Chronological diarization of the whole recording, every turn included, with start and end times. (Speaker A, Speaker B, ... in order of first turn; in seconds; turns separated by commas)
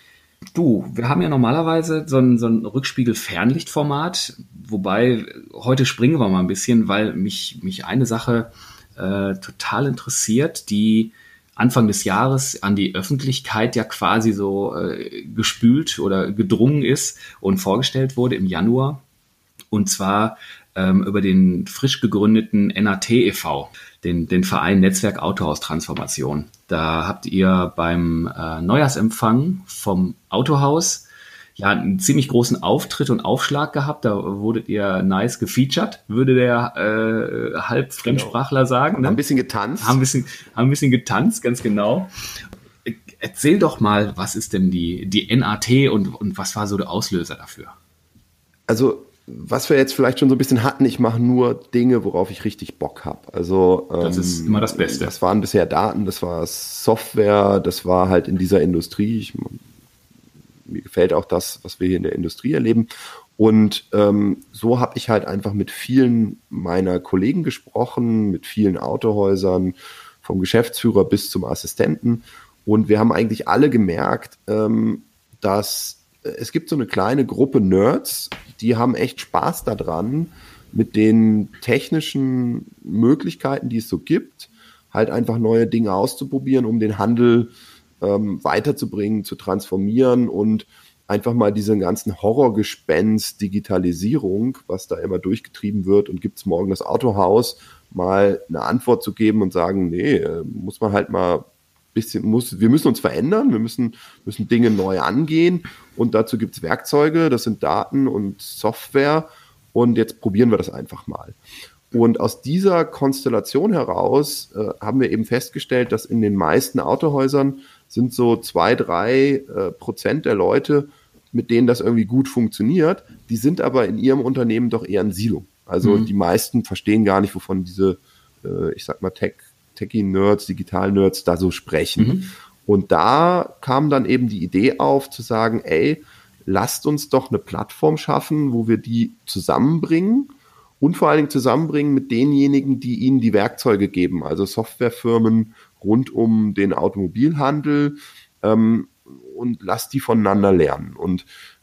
Speaker A: 0.6-19.0, Speaker A: 19.7-39.2, Speaker B: 38.0-38.4, Speaker B: 39.0-40.0, Speaker A: 39.8-42.1, Speaker A: 42.9-47.8, Speaker B: 48.7-59.6, Speaker A: 54.0-55.1, Speaker B: 60.7-111.4, Speaker B: 111.9-151.3, Speaker A: 125.8-126.1, Speaker A: 132.0-132.3